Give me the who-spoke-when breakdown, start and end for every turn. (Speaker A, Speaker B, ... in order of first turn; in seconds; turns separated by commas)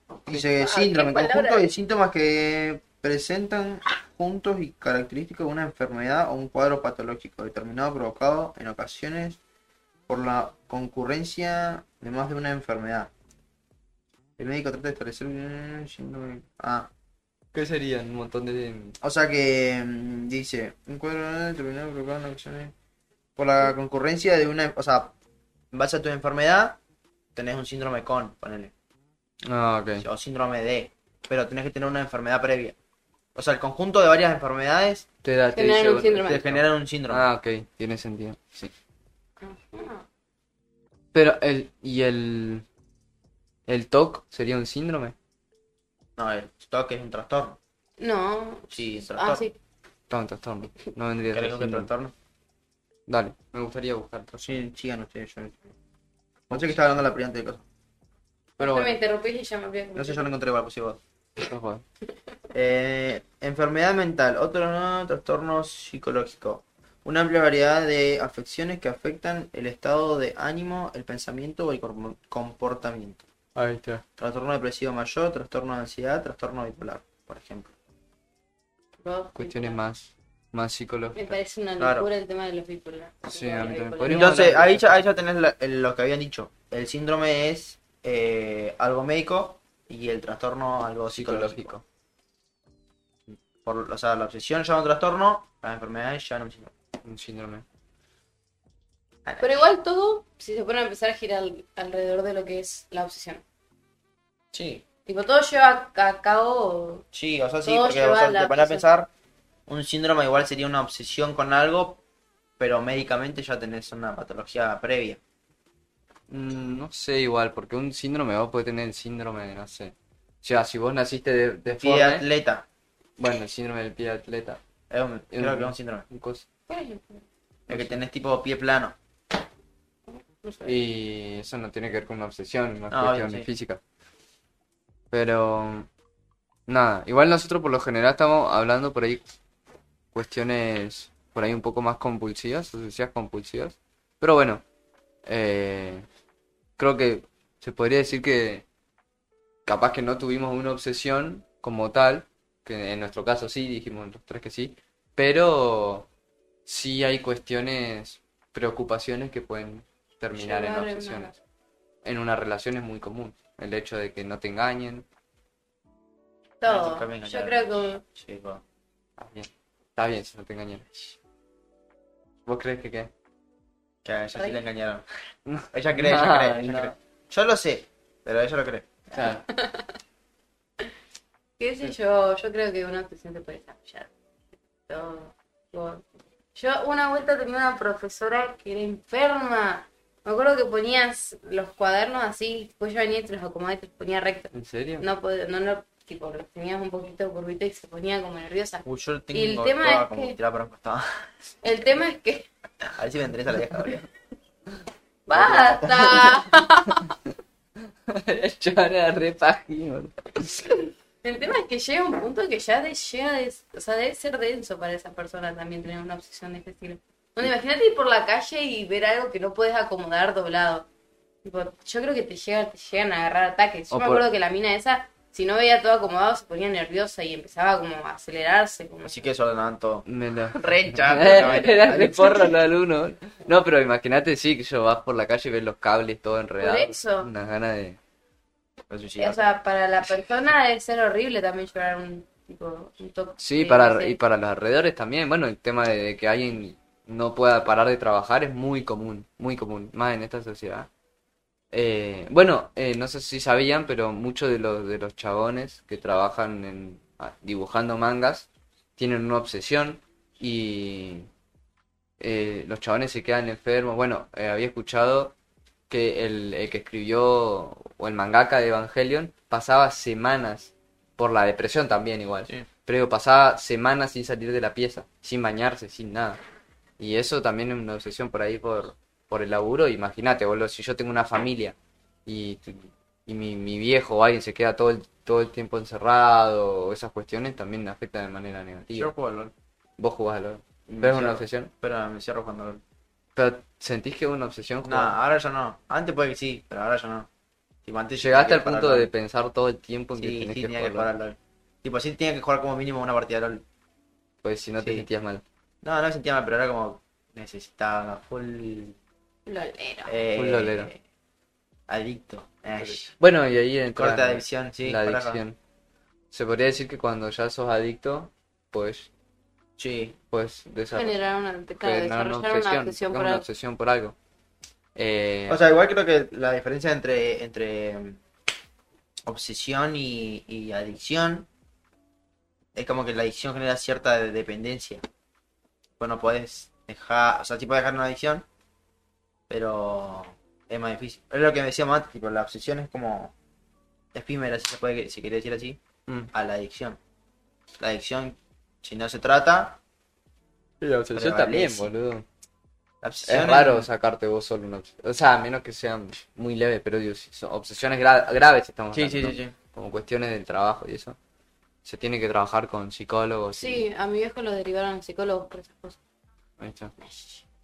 Speaker A: 0.2-9.4, Speaker B: 0.3-1.7, Speaker A: 10.1-13.1, Speaker A: 14.4-16.9, Speaker C: 17.5-19.0, Speaker A: 19.0-22.7, Speaker A: 23.4-25.1, Speaker A: 25.7-26.8, Speaker A: 27.3-28.7, Speaker C: 29.4-30.0, Speaker A: 30.0-32.8, Speaker A: 33.3-35.0, Speaker C: 35.2-36.3, Speaker B: 35.5-36.6, Speaker A: 36.1-37.2, Speaker C: 37.1-38.7, Speaker B: 39.4-40.0, Speaker C: 41.1-42.6, Speaker C: 43.7-45.1, Speaker A: 46.2-47.6, Speaker B: 48.0-49.5, Speaker A: 48.7-49.5, Speaker C: 50.1-51.9, Speaker A: 51.3-52.1, Speaker C: 53.1-54.6, Speaker A: 54.5-55.6, Speaker C: 56.5-56.8, Speaker A: 56.5-57.6, Speaker C: 58.6-59.0, Speaker B: 58.6-60.3, Speaker A: 59.9-61.0, Speaker C: 61.4-61.8, Speaker A: 62.5-73.2, Speaker C: 73.5-74.0, Speaker A: 74.2-77.7, Speaker B: 79.0-79.8, Speaker C: 79.3-81.3, Speaker B: 81.1-84.4, Speaker A: 81.8-82.1, Speaker C: 83.3-85.0, Speaker A: 84.1-91.7, Speaker C: 91.1-91.8, Speaker A: 93.6-96.7, Speaker C: 97.0-97.6, Speaker A: 99.2-99.6, Speaker B: 99.4-103.4, Speaker A: 104.5-104.8, Speaker B: 105.0-107.0, Speaker A: 107.1-109.1, Speaker B: 107.6-108.8, Speaker A: 109.7-112.0, Speaker A: 112.6-115.2, Speaker C: 116.3-122.2, Speaker A: 121.8-122.7, Speaker C: 123.2-124.6, Speaker A: 124.9-126.0, Speaker C: 125.3-126.4, Speaker B: 126.7-127.2, Speaker C: 127.7-128.0, Speaker A: 127.7-128.9, Speaker B: 130.1-130.8, Speaker C: 130.6-133.8, Speaker A: 132.9-133.5, Speaker C: 135.1-135.9, Speaker C: 136.7-139.2, Speaker C: 140.1-144.6, Speaker C: 145.2-146.1, Speaker C: 146.8-148.6, Speaker C: 149.7-156.1, Speaker C: 156.7-161.3, Speaker B: 160.3-161.3, Speaker C: 162.0-165.0, Speaker B: 166.6-168.0, Speaker A: 166.7-168.6, Speaker C: 169.2-170.9, Speaker C: 172.4-173.1, Speaker A: 174.0-175.0, Speaker B: 174.3-174.6, Speaker C: 175.5-176.9, Speaker A: 175.7-178.9, Speaker C: 179.1-179.4, Speaker B: 179.5-179.9, Speaker B: 181.6-184.1, Speaker B: 184.9-186.0, Speaker B: 186.6-200.4, Speaker C: 194.5-195.1, Speaker A: 198.8-201.1, Speaker B: 201.6-202.5, Speaker A: 202.9-204.0, Speaker B: 205.3-207.1, Speaker A: 205.3-206.1, Speaker C: 208.1-210.6, Speaker B: 211.2-220.8, Speaker B: 221.4-229.2, Speaker C: 223.9-224.2, Speaker A: 229.0-232.6, Speaker C: 230.1-238.0, Speaker B: 236.6-237.3, Speaker A: 238.9-239.5, Speaker B: 239.2-244.2, Speaker C: 243.4-250.9, Speaker C: 251.7-261.3, Speaker C: 262.2-265.3, Speaker C: 265.9-276.4, Speaker C: 277.0-281.7, Speaker C: 282.2-289.1, Speaker A: 288.9-289.5, Speaker C: 290.0-291.7, Speaker A: 290.9-292.8, Speaker C: 293.4-295.1, Speaker A: 294.8-297.3, Speaker A: 297.8-299.1, Speaker C: 298.2-301.1, Speaker A: 300.2-303.6, Speaker C: 304.4-305.4, Speaker A: 304.8-305.1, Speaker A: 305.8-309.0, Speaker B: 309.4-310.2, Speaker A: 310.1-311.0, Speaker C: 310.3-310.9, Speaker A: 311.9-313.1, Speaker C: 312.8-315.6, Speaker A: 313.9-315.4, Speaker C: 316.3-319.1, Speaker A: 319.8-320.1, Speaker C: 320.3-321.2, Speaker B: 320.9-323.4, Speaker C: 321.8-324.1, Speaker C: 324.9-325.6, Speaker A: 325.5-328.2, Speaker A: 329.2-331.5, Speaker A: 332.7-335.0, Speaker A: 336.0-338.4, Speaker A: 339.5-343.3, Speaker A: 344.1-345.8, Speaker A: 346.3-347.0, Speaker A: 347.8-349.8, Speaker C: 350.8-352.2, Speaker A: 351.1-351.9, Speaker A: 353.0-353.9, Speaker C: 353.2-361.2, Speaker A: 358.9-359.5, Speaker C: 361.8-363.8, Speaker B: 363.6-366.0, Speaker C: 366.6-366.9, Speaker B: 367.0-367.4